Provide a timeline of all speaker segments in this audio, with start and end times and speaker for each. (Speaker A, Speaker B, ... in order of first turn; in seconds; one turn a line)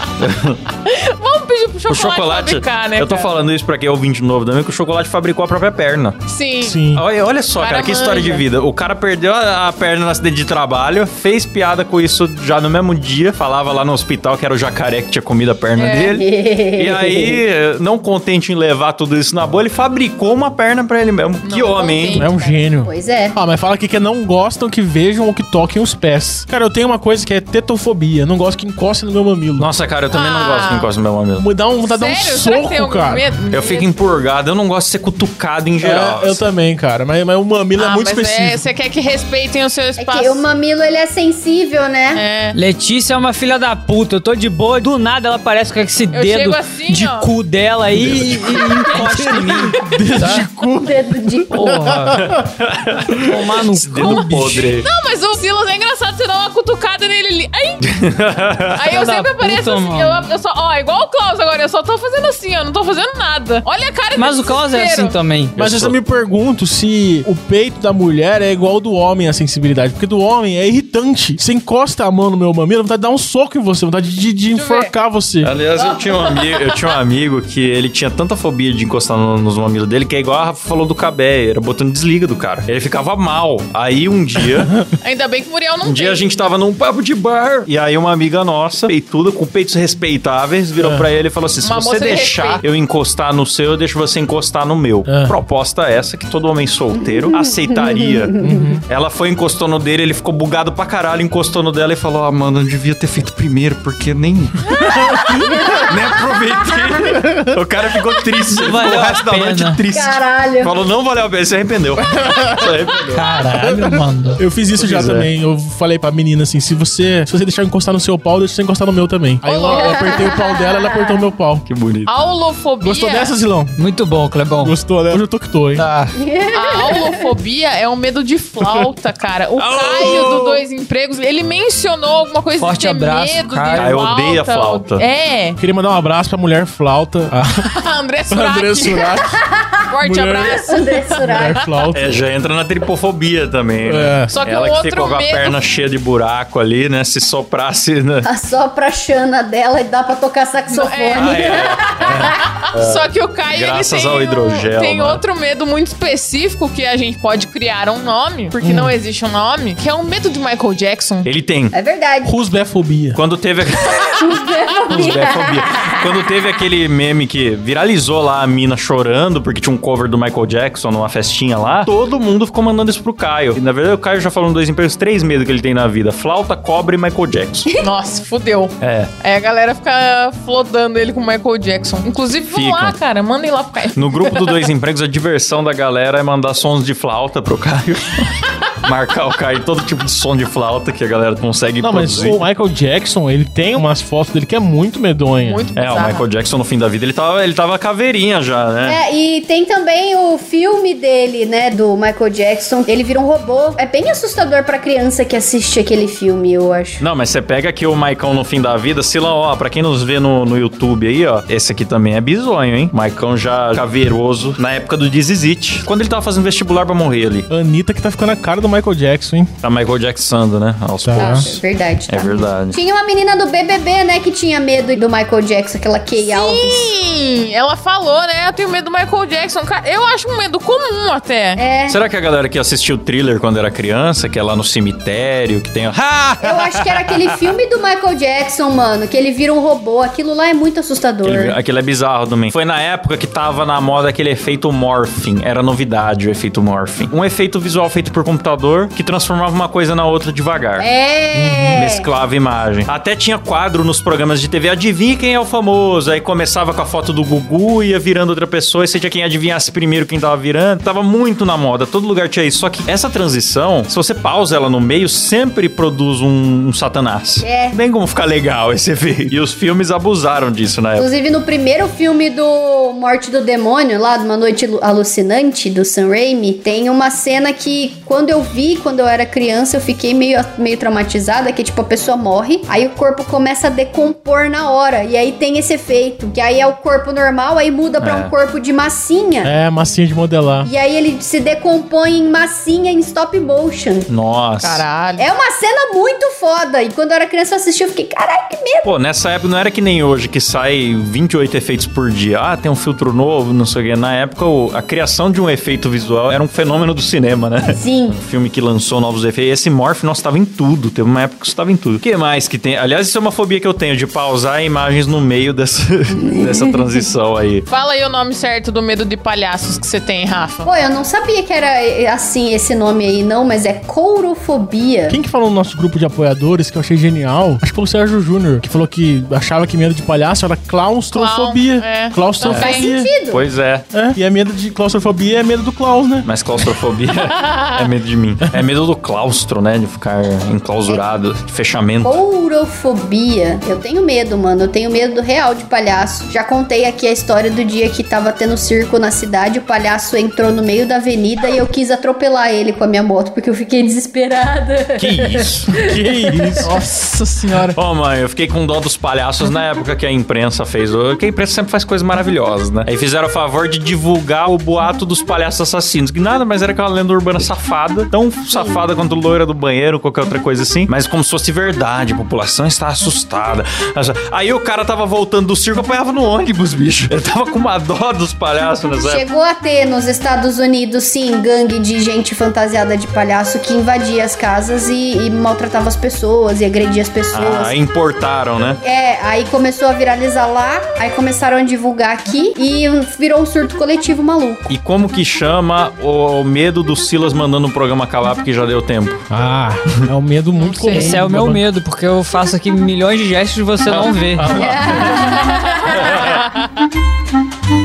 Speaker A: 0.2-0.6
Speaker B: 0.8-3.3
Speaker A: 1.9-6.2
Speaker B: 6.3-6.9
Speaker C: 6.6-7.0
Speaker A: 6.9-22.3
Speaker B: 7.6-8.4
Speaker B: 15.8-16.2
Speaker D: 16.0-17.4
Speaker B: 21.4-22.6
Speaker C: 22.2-29.7
Speaker D: 22.8-23.4
Speaker A: 29.6-31.5
Speaker B: 30.1-30.9
Speaker C: 31.4-33.3
Speaker B: 31.9-34.0
Speaker A: 33.5-36.4
Speaker C: 35.8-38.7
Speaker B: 37.8-40.5
Speaker D: 40.0-42.2
Speaker B: 42.1-42.6
Speaker E: 42.5-50.5
Speaker B: 46.1-47.3
Speaker A: 48.0-48.4
Speaker B: 48.5-50.0
Speaker C: 49.8-52.4
Speaker D: 50.8-51.7
Speaker E: 51.5-52.3
Speaker A: 52.1-54.9
Speaker E: 53.1-54.8
Speaker B: 54.0-58.0
Speaker A: 57.8-58.9
Speaker B: 58.7-65.2
Speaker E: 58.9-60.3
Speaker E: 64.2-65.5
Speaker A: 65.6-66.0
Speaker C: 65.6-75.5
Speaker B: 74.5-74.9
Speaker A: 75.4-84.8
Speaker B: 75.8-76.8
Speaker B: 85.0-86.3
Speaker A: 85.8-113.4
Speaker C: 90.8-91.1
Speaker B: 91.6-92.6
Speaker C: 95.1-95.3
Speaker D: 97.0-98.8
Speaker C: 98.4-98.8
Speaker B: 104.8-105.2
Speaker D: 105.3-106.3
Speaker C: 107.2-107.5
Speaker E: 108.5-109.8
Speaker D: 109.9-110.8
Speaker C: 112.0-112.7
Speaker E: 113.1-114.4
Speaker C: 113.5-121.7
Speaker A: 114.8-115.3
Speaker B: 119.4-120.3
Speaker D: 119.6-120.8
Speaker A: 121.7-122.1
Speaker B: 122.1-123.3
Speaker C: 122.8-123.8
Speaker E: 123.8-124.8
Speaker C: 124.6-125.8
Speaker E: 125.8-126.2
Speaker D: 126.2-127.2
Speaker B: 126.5-135.6
Speaker A: 129.6-130.6
Speaker E: 132.6-134.0
Speaker A: 133.8-135.0
Speaker C: 135.6-137.7
Speaker B: 137.7-139.2
Speaker C: 138.3-139.4
Speaker B: 139.9-141.6
Speaker C: 140.0-140.6
Speaker D: 140.5-141.6
Speaker C: 141.2-142.2
Speaker A: 141.9-148.3
Speaker C: 143.8-144.3
Speaker B: 144.3-145.6
Speaker D: 148.2-152.6
Speaker B: 150.7-161.3
Speaker A: 151.2-155.2
Speaker C: 158.6-159.0
Speaker A: 161.2-161.7
Speaker D: 161.7-162.3
Speaker C: 162.2-163.2
Speaker A: 163.2-177.7
Speaker D: 164.1-166.2
Speaker B: 177.8-184.7
Speaker A: 178.8-179.1
Speaker A: 182.5-183.0
Speaker A: 183.9-188.3
Speaker A: 188.8-192.4
Speaker C: 191.8-195.7
Speaker B: 195.4-196.3
Speaker A: 195.8-199.0
Speaker D: 198.8-207.0
Speaker A: 207.0-217.5
Speaker C: 217.5-219.5
Speaker A: 219.6-222.8
Speaker C: 221.0-221.5
Speaker D: 221.2-226.9
Speaker B: 226.2-231.6
Speaker D: 231.6-232.0
Speaker A: 231.9-237.5
Speaker D: 236.4-241.6
Speaker A: 241.2-250.9
Speaker D: 250.8-252.1
Speaker C: 251.3-251.8
Speaker A: 251.8-271.1
Speaker D: 267.4-267.8
Speaker D: 271.0-289.5
Speaker A: 288.0-288.3
Speaker C: 289.4-290.7
Speaker D: 290.6-294.1
Speaker A: 294.1-294.9
Speaker B: 294.6-295.3
Speaker D: 295.2-298.9
Speaker A: 298.9-317.7
Speaker D: 307.6-308.2
Speaker D: 316.1-317.0
Speaker B: 317.7-320.7
Speaker D: 320.7-325.2
Speaker C: 325.1-333.1
Speaker B: 331.1-332.9
Speaker D: 332.5-333.4
Speaker A: 333.3-333.9
Speaker C: 333.9-336.3
Speaker A: 336.2-342.1
Speaker D: 342.0-356.7
Speaker A: 355.0-355.7
Speaker C: 355.7-356.8
Speaker B: 356.6-357.8
Speaker A: 357.8-379.2
Speaker D: 368.5-368.9
Speaker D: 379.0-387.8
Speaker A: 387.3-388.8
Speaker D: 388.8-394.7
Speaker A: 394.7-399.3
Speaker C: 399.3-401.6
Speaker B: 400.6-401.1
Speaker E: 400.9-404.6
Speaker A: 403.9-405.2
Speaker D: 404.5-406.4
Speaker A: 405.9-406.4